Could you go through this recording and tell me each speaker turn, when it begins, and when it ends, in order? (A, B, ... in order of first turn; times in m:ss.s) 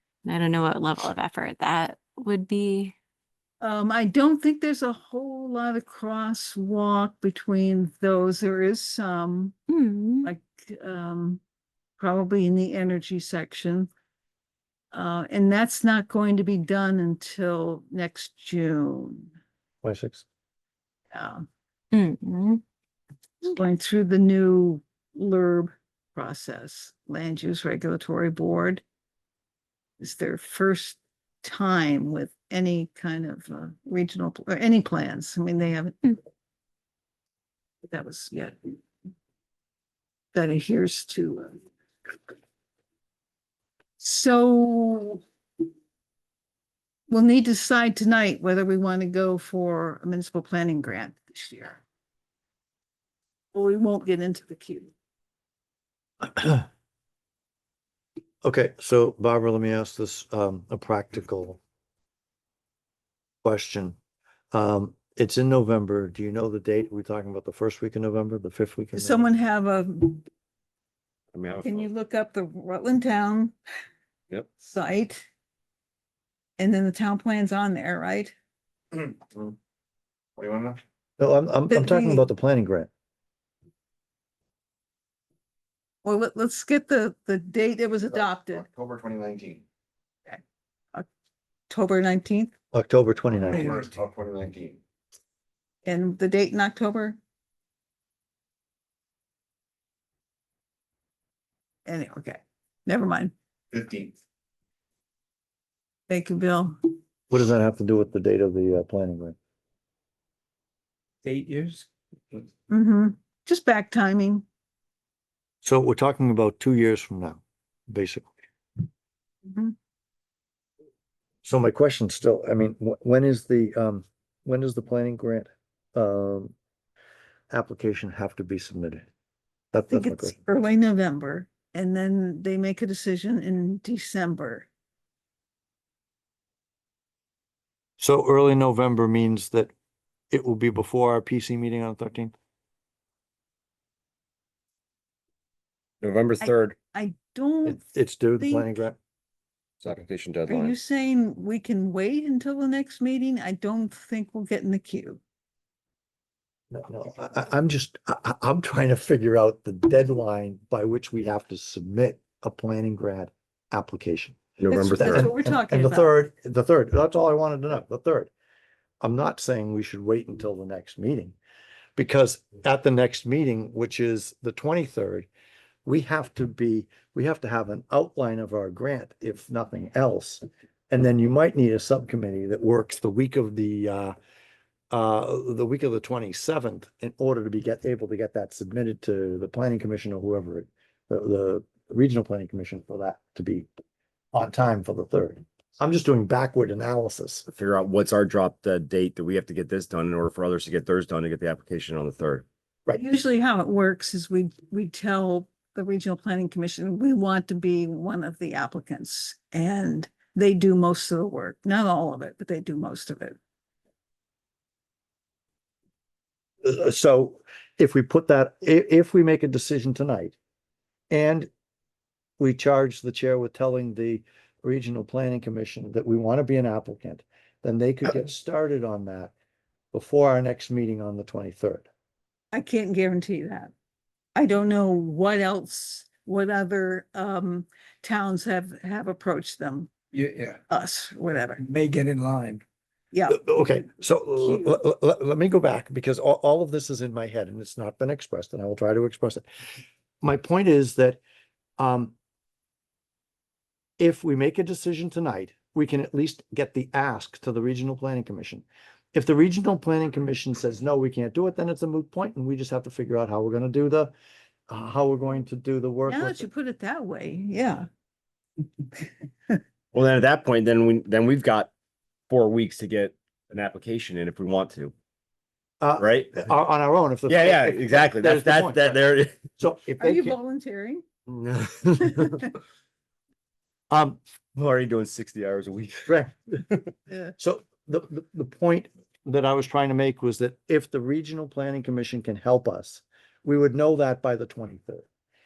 0:00.2-0:03.0 A
0:03.6-0:09.5 B
0:09.7-0:10.3 A
0:10.2-0:11.4 B
0:12.0-0:13.9 B
0:14.9-0:19.3 B
0:19.8-0:20.2 C
0:21.1-0:21.5 B
0:21.9-0:22.6 A
0:23.4-0:28.8 B
0:30.0-0:36.2 B
0:37.8-0:38.8 B
0:40.3-0:41.6 B
0:44.0-0:45.2 B
0:47.1-0:51.8 B
0:53.5-0:54.9 B
0:56.2-0:56.7 C
0:58.4-1:01.6 C
1:03.4-1:04.0 C
1:04.5-1:09.3 C
1:09.0-1:10.2 B
1:11.3-1:11.9 D
1:11.6-1:13.6 B
1:14.6-1:15.2 B
1:16.6-1:18.3 B
1:19.0-1:19.5 E
1:20.4-1:20.8 E
1:21.2-1:22.9 C
1:21.7-1:22.3 B
1:26.0-1:28.7 B
1:28.5-1:29.6 E
1:31.7-1:32.5 B
1:32.7-1:33.8 C
1:33.5-1:33.9 B
1:33.5-1:34.8 E
1:35.8-1:37.2 B
1:41.9-1:43.3 B
1:43.7-1:44.1 E
1:46.1-1:46.8 B
1:47.3-1:49.4 C
1:51.3-1:51.8 F
1:51.5-1:51.8 E
1:52.7-1:54.4 B
1:55.6-1:58.3 C
1:59.4-1:59.8 B
2:01.4-2:06.5 C
2:07.5-2:09.1 C
2:09.7-2:10.4 C
2:09.9-2:14.7 B
2:18.0-2:19.7 C
2:20.3-2:22.3 C
2:26.0-2:26.8 D
2:26.4-2:27.8 B
2:27.6-2:29.0 C
2:28.4-2:28.7 B
2:29.8-2:30.8 D
2:30.5-2:35.2 B
2:36.7-2:48.3 C
2:44.6-2:45.3 D
2:44.7-2:46.2 B
2:49.0-2:51.4 C
2:52.0-2:55.3 C
2:55.8-3:04.2 C
3:04.9-3:13.7 C
3:14.3-3:17.5 C
3:17.5-3:22.4 D
3:22.9-3:33.4 B
3:36.6-3:40.4 C
3:41.1-3:41.5 C
3:42.4-3:49.3 C
3:49.9-3:51.9 C
3:52.5-3:53.7 B
3:54.3-3:59.9 B
4:00.1-4:00.6 F
4:00.7-4:01.6 B
4:01.6-4:02.6 F
4:03.1-4:03.4 B
4:03.3-4:09.4 C
4:04.4-4:04.8 B
4:10.2-4:11.2 C
4:11.8-4:12.1 C
4:14.0-4:24.1 C
4:24.7-4:26.5 C
4:26.1-4:27.9 B
4:29.9-4:31.7 D
4:32.3-4:34.9 D
4:35.8-4:40.4 C
4:36.0-4:36.4 D
4:37.3-4:39.4 D
4:40.0-4:41.0 B
4:41.3-4:42.5 D
4:43.9-4:44.2 C
4:44.6-4:46.2 D
4:46.0-4:46.6 C
4:47.4-4:55.1 C